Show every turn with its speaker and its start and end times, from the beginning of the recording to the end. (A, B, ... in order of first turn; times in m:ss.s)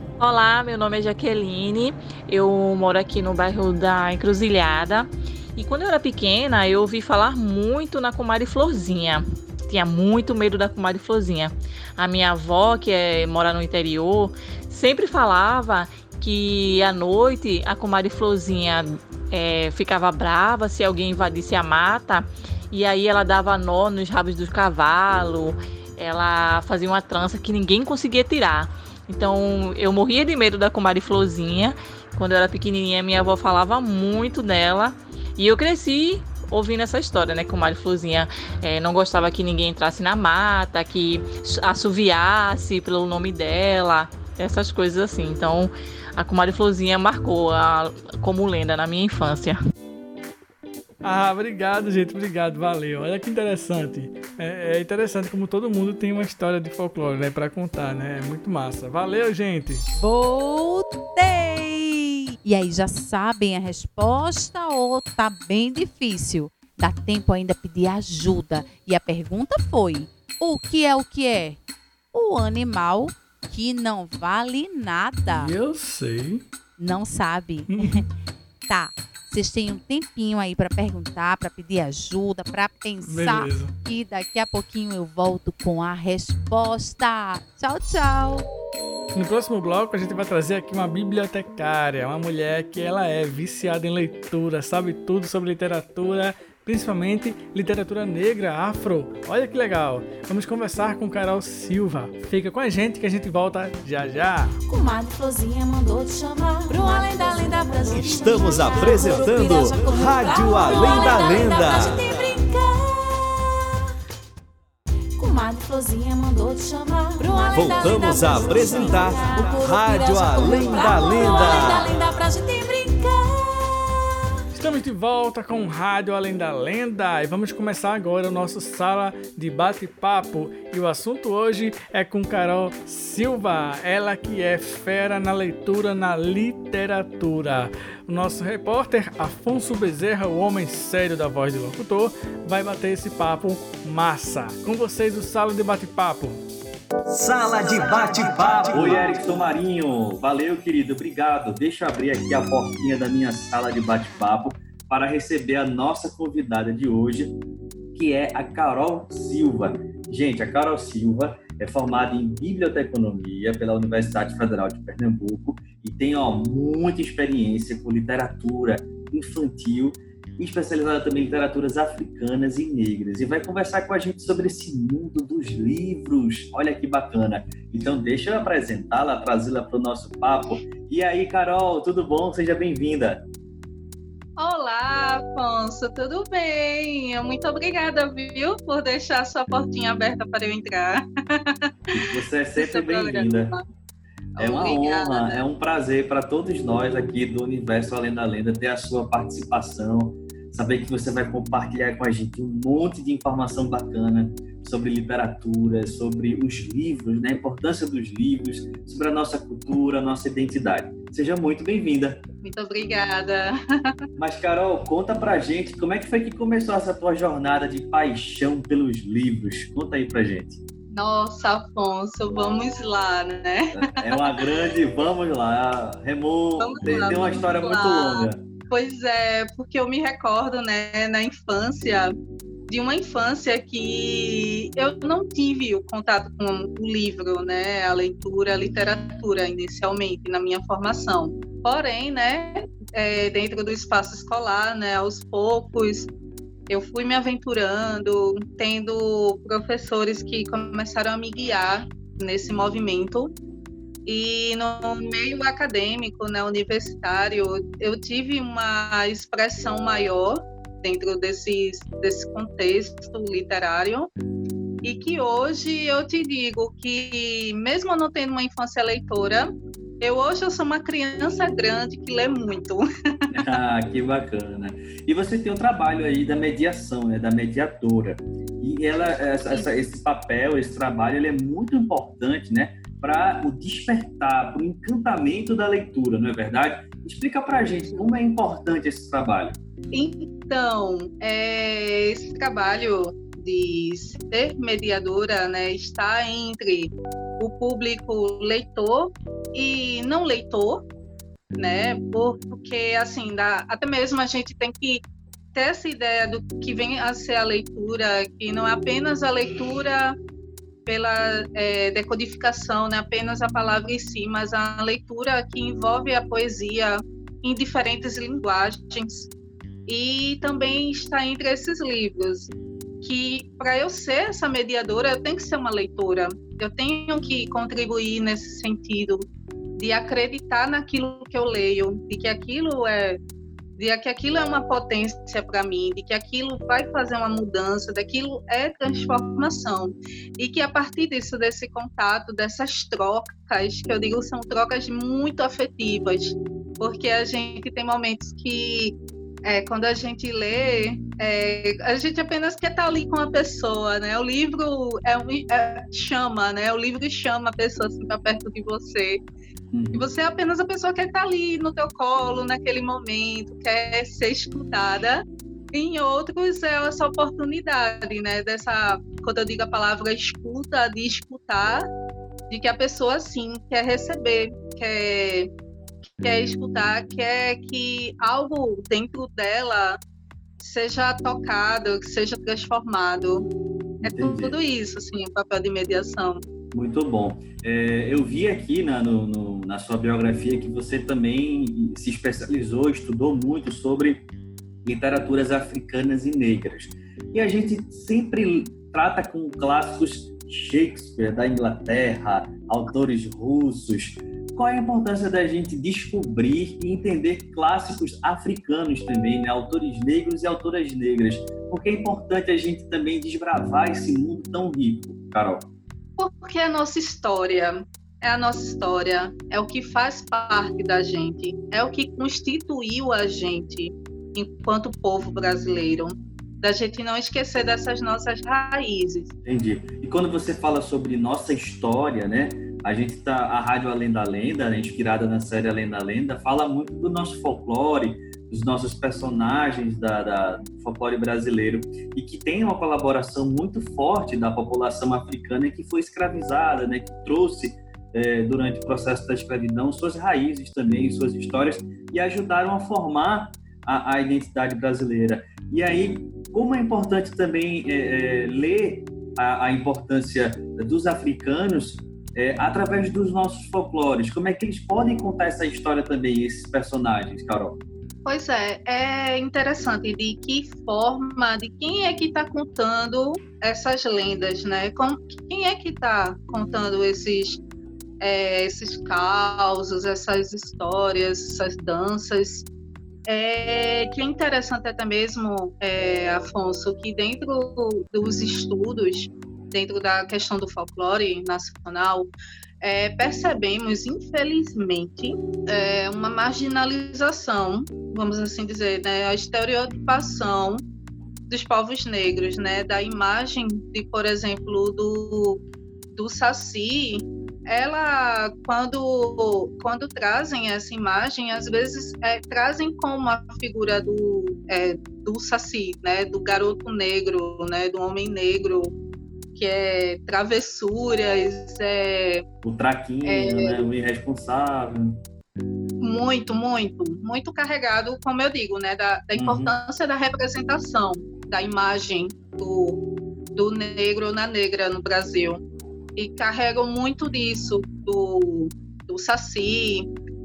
0:00.2-0:49.6 A
0:51.0-0:59.9 B
1:00.0-1:11.6 C
1:12.1-1:15.5 C
1:15.3-1:16.4 B
1:16.8-1:18.0 C
1:17.7-1:18.0 B
1:18.7-1:28.5 C
1:23.0-1:23.7 B
1:29.1-1:44.6 B
1:44.6-1:53.8 D
1:47.9-1:52.4 E
1:55.2-2:04.1 D
1:57.5-2:02.0 E
1:59.4-2:00.9 C
2:04.5-2:26.4 B
2:27.1-2:29.1 E
2:28.0-2:37.4 F
2:37.9-3:03.3 F
3:04.4-3:13.6 G
3:11.9-3:13.6 F
3:14.4-3:15.4 G
3:14.4-3:32.2 F
3:32.4-3:34.0 G
3:34.2-3:40.6 F
3:40.9-3:44.4 G
3:43.8-3:48.4 F
3:46.6-3:52.1 G
3:52.7-4:06.1 G
4:06.7-4:13.3 G
4:14.1-4:24.1 G
4:24.8-4:32.8 G
4:33.3-4:49.6 F
4:49.9-5:00.8 G
5:01.6-5:05.0 G
5:05.5-5:10.2 G
5:10.9-5:19.3 G
5:19.9-5:22.5 G
5:23.0-5:29.2 G
5:29.8-5:33.2 G
5:33.8-5:59.2 G
5:59.7-6:00.0 F
5:59.9-6:11.9 G
6:12.5-6:15.5 G
6:16.2-6:20.0 G
6:20.6-6:23.4 G
6:24.0-6:24.6 F
6:24.0-6:26.4 G
6:26.7-6:34.3 F
6:34.8-6:55.7 F
6:56.2-7:09.3 G
7:09.4-7:47.8 F
7:48.2-7:57.6 G
7:58.2-8:02.6 G
8:03.3-8:12.3 G
8:12.8-8:20.8 G
8:21.5-8:38.9 G
8:39.6-8:42.4 G
8:42.6-8:45.2 F
8:43.2-8:43.8 G
8:46.0-8:53.0 G
8:49.4-8:49.7 F
8:53.5-8:55.6 G
8:56.2-9:00.1 G